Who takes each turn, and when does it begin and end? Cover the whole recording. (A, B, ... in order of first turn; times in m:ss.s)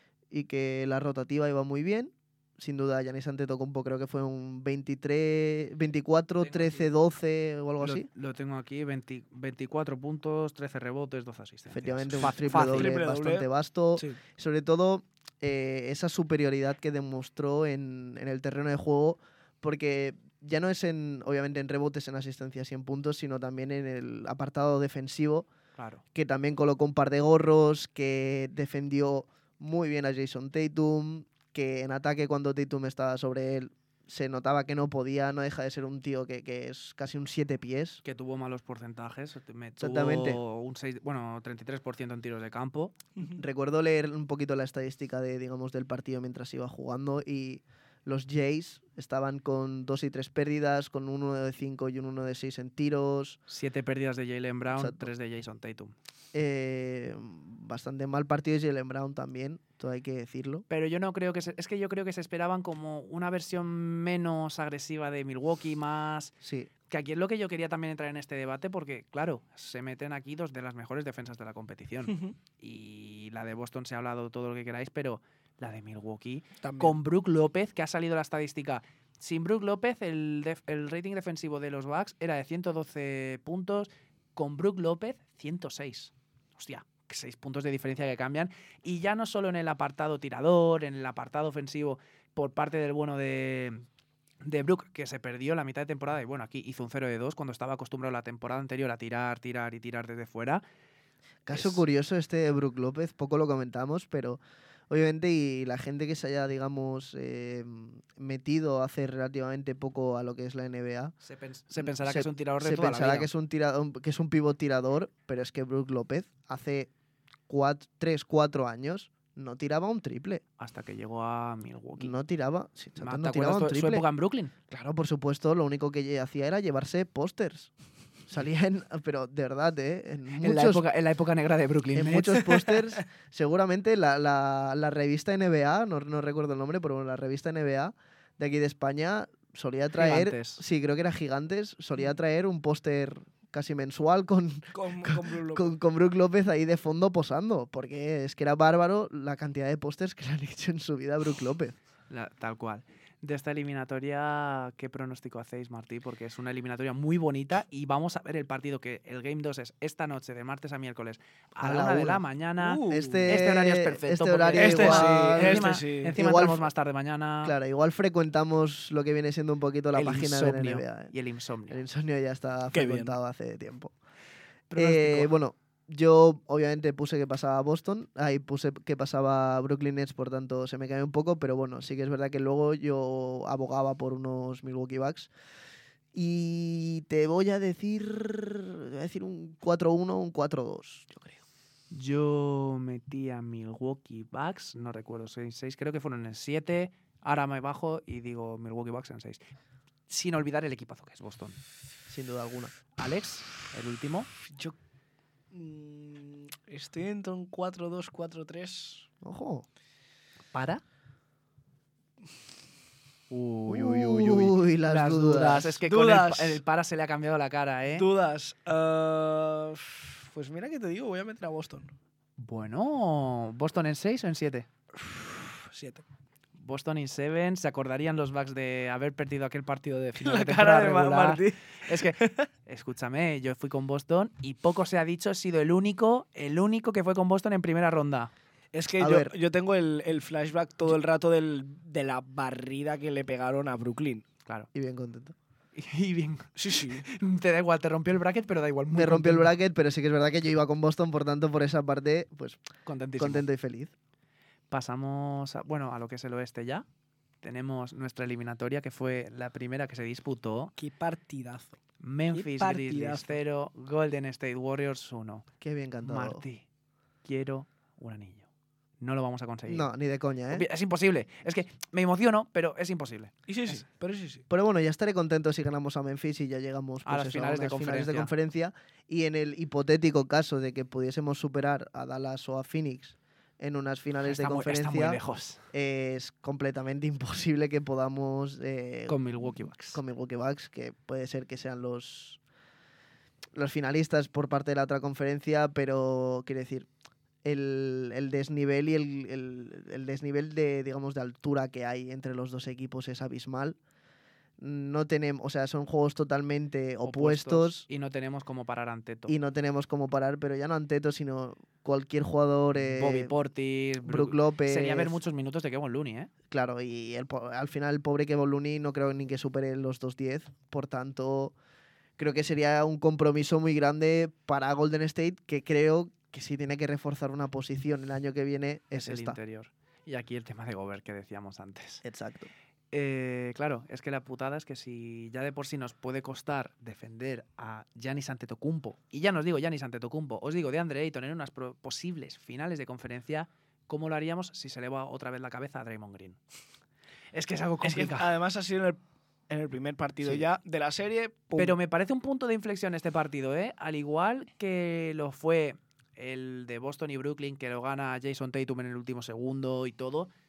0:00.3-0:08.1 A
0:06.4-0:06.8 B
0:07.8-0:12.9 B
0:11.7-0:25.5 A
0:12.2-0:13.5 C
0:25.8-0:26.0 B
0:26.1-0:38.0 A
0:38.0-0:43.0 B
0:39.8-0:40.4 A
0:43.2-0:53.4 A
0:53.5-0:55.9 B
0:54.7-0:55.1 A
0:56.3-1:00.6 A
1:00.7-1:06.3 B
1:06.4-1:06.7 A
1:06.9-1:33.8 B
1:12.1-1:12.3 C
1:16.6-1:16.9 C
1:34.4-1:40.6 B
1:41.4-1:51.1 A
1:41.5-1:41.8 B
1:51.2-1:53.3 B
1:51.8-1:56.9 A
1:57.5-2:00.4 A
2:00.6-2:02.1 B
2:02.0-2:04.0 A
2:03.0-2:04.5 B
2:04.7-2:07.7 A
2:08.3-2:10.8 A
2:10.4-2:12.7 B
2:11.9-2:31.7 A
2:19.9-2:20.6 B
2:24.7-2:25.7 C
2:32.1-2:47.5 B
2:41.6-2:42.2 A
2:42.6-2:43.4 C
2:42.9-2:46.6 A
2:44.6-2:46.2 C
2:47.4-2:51.1 A
2:49.9-2:51.8 B
2:51.7-2:53.9 A
2:52.7-2:53.2 C
2:54.7-2:55.3 B
2:54.8-3:05.3 A
3:06.1-3:11.3 A
3:11.9-3:19.4 B
3:20.1-3:21.6 B
3:22.1-3:22.7 A
3:23.0-3:24.3 B
3:24.5-3:24.8 C
3:25.5-3:29.1 C
3:29.2-3:29.6 A
3:30.5-3:30.8 B
3:33.3-3:38.0 B
3:33.7-3:35.8 A
3:35.8-3:36.6 C
3:37.9-3:41.9 C
3:42.4-3:44.7 B
3:44.9-3:46.0 C
3:46.6-3:58.3 B
3:50.2-3:52.5 C
3:58.7-4:04.2 C
3:59.0-3:59.3 A
4:04.7-4:05.3 A
4:05.7-4:09.5 B
4:06.6-4:07.0 C
4:08.9-4:12.6 A
4:12.8-4:13.4 B
4:13.2-4:13.9 A
4:14.7-4:16.8 B
4:17.4-4:20.7 B
4:20.8-4:21.8 C
4:22.0-4:25.5 B
4:22.3-4:23.4 C
4:25.6-4:26.4 A
4:26.0-4:26.6 B
4:27.2-4:28.5 B
4:29.0-4:29.9 B
4:29.6-4:30.6 A
4:30.5-4:33.3 B
4:33.5-4:34.4 C
4:34.5-4:45.2 A
4:37.0-4:38.3 B
4:44.2-4:45.6 B
4:45.7-4:52.4 A
4:49.1-4:50.0 B
4:53.5-4:56.9 A
4:57.4-5:03.8 A
5:04.6-5:07.8 A
5:07.0-5:09.3 B
5:09.3-5:13.3 A
5:12.8-5:16.3 B
5:14.0-5:15.2 A
5:16.5-5:21.5 A
5:22.2-5:29.4 A
5:29.0-5:32.0 B
5:32.0-5:32.5 A
5:32.9-5:46.4 B
5:47.3-5:48.3 B
5:47.8-5:51.8 C
5:51.6-6:00.3 B